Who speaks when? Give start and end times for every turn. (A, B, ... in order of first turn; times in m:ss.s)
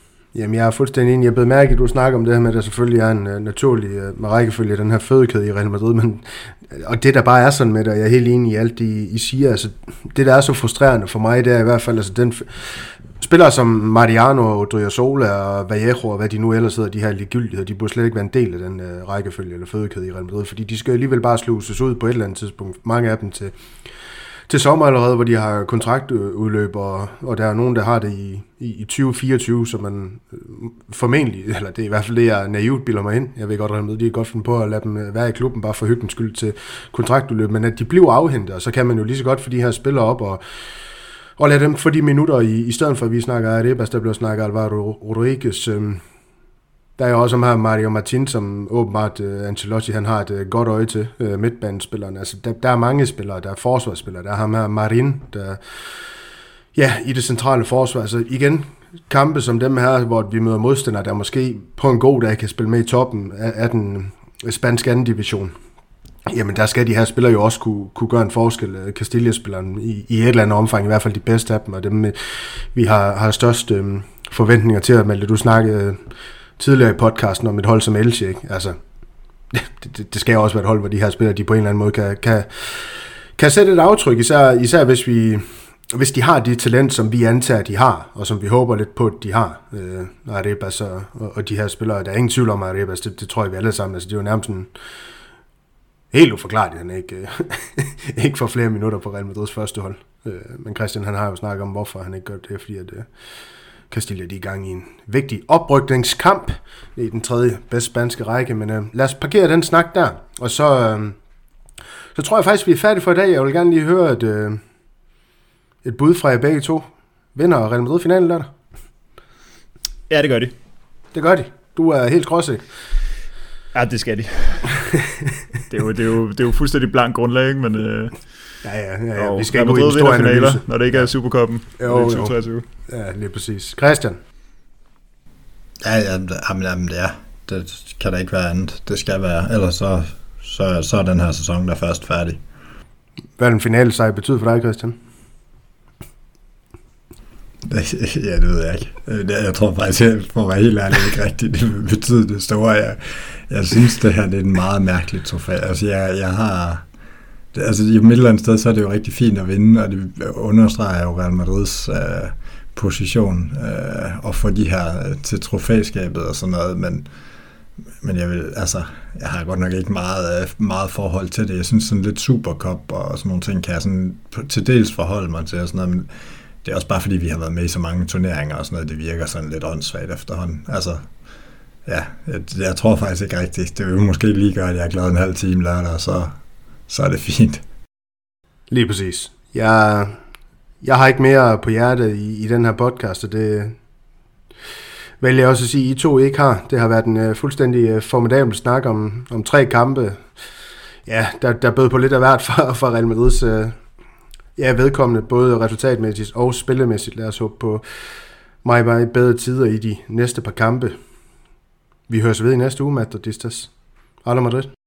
0:00.3-0:23.5 A
0:24.5-0:40.4 A
0:41.4-0:46.0 A
0:47.0-0:55.8 A
0:56.8-1:05.5 A
1:06.3-1:16.0 A
1:16.6-1:18.8 A
1:19.5-1:34.7 A
1:36.1-1:43.1 A
1:43.9-1:51.2 A
1:52.2-1:54.6 A
1:55.8-1:58.5 A
2:00.1-2:00.6 B
2:01.1-2:02.7 A
2:03.7-2:04.9 B
2:05.0-2:05.3 A
2:05.7-2:08.2 B
2:08.6-2:11.1 A
2:09.2-2:12.6 B
2:11.8-2:12.4 A
2:12.9-2:14.2 A
2:15.8-2:22.4 C
2:23.4-2:25.0 A
2:27.7-2:36.8 C
2:37.5-2:47.1 C
2:48.0-2:56.1 C
2:56.6-3:01.1 C
3:01.9-3:06.3 C
3:06.9-3:07.6 C
3:08.7-3:10.2 A
3:10.8-3:13.8 A
3:15.2-3:20.2 A
3:21.1-3:23.8 A
3:24.6-3:27.8 A
3:28.6-3:31.0 A
3:32.1-3:33.7 A
3:34.2-3:34.7 A